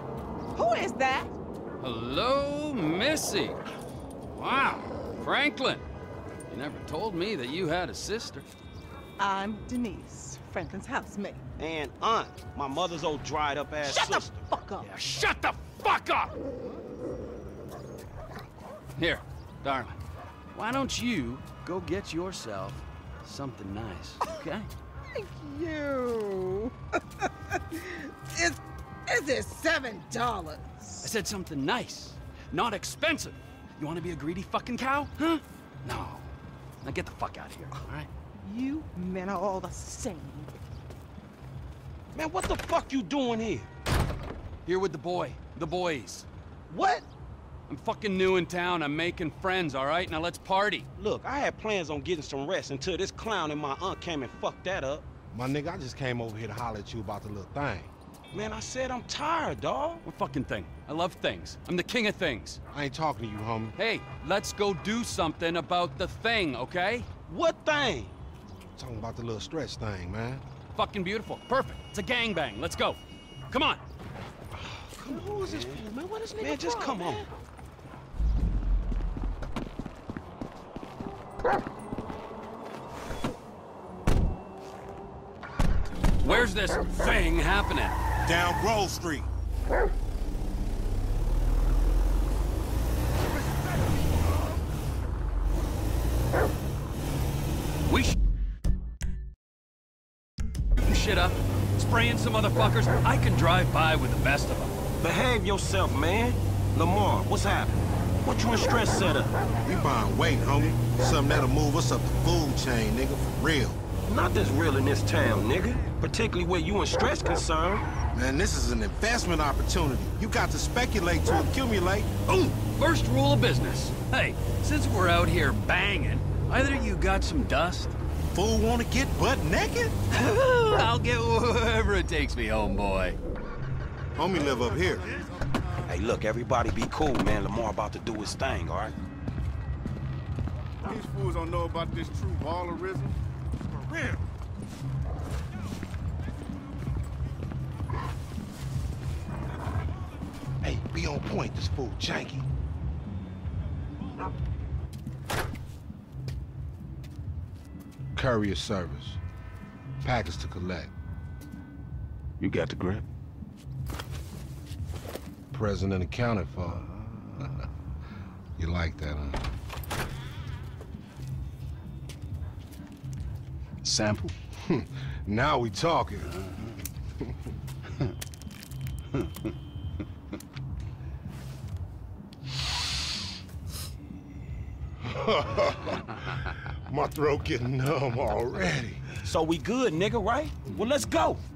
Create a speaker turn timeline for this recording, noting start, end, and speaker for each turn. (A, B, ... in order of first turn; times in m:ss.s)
0:00.5-0:01.3 A
0:01.8-0:03.6 B
0:04.3-0:05.8 B
0:06.5-0:08.4 B
0:09.2-0:11.4 A
0:11.6-0:14.4 C
0:13.8-0:14.9 A
0:14.8-0:16.3 B
0:19.0-0:20.0 B
0:20.5-0:24.7 B
0:25.1-0:31.1 A
0:31.0-0:36.3 B
0:36.8-0:38.1 B
0:38.4-0:40.6 A
0:42.1-0:43.7 C
0:44.6-0:46.2 B
0:46.7-0:47.1 C
0:47.7-0:50.8 B
0:51.0-0:55.0 C
0:55.3-0:57.9 D
0:58.3-1:00.0 C
1:00.0-1:02.6 B
1:02.7-1:03.7 D
1:03.8-1:07.1 B
1:07.3-1:08.1 C
1:08.7-1:10.4 D
1:10.7-1:13.0 B
1:13.5-1:13.8 B
1:14.9-1:17.3 C
1:15.0-1:16.9 D
1:26.2-1:28.0 B
1:28.2-1:29.3 D
1:37.9-1:38.1 B
1:40.8-1:44.7 B
1:45.0-1:49.3 C
1:49.6-1:53.8 D
1:54.1-1:57.8 C
1:58.1-2:02.1 D
2:02.3-2:07.9 B
2:08.3-2:10.0 D
2:10.1-2:13.2 B
2:14.1-2:15.1 D
2:15.8-2:18.9 C
2:20.8-2:23.1 E
2:23.8-2:24.2 D
2:30.6-2:32.5 D
2:38.1-2:39.2 D
2:40.0-2:40.9 D
2:42.4-2:43.0 C
2:45.5-2:47.6 D
2:48.6-2:49.5 D
2:53.8-2:54.3 B
2:54.6-2:56.3 D
3:05.0-3:09.0 D
3:09.2-3:11.4 C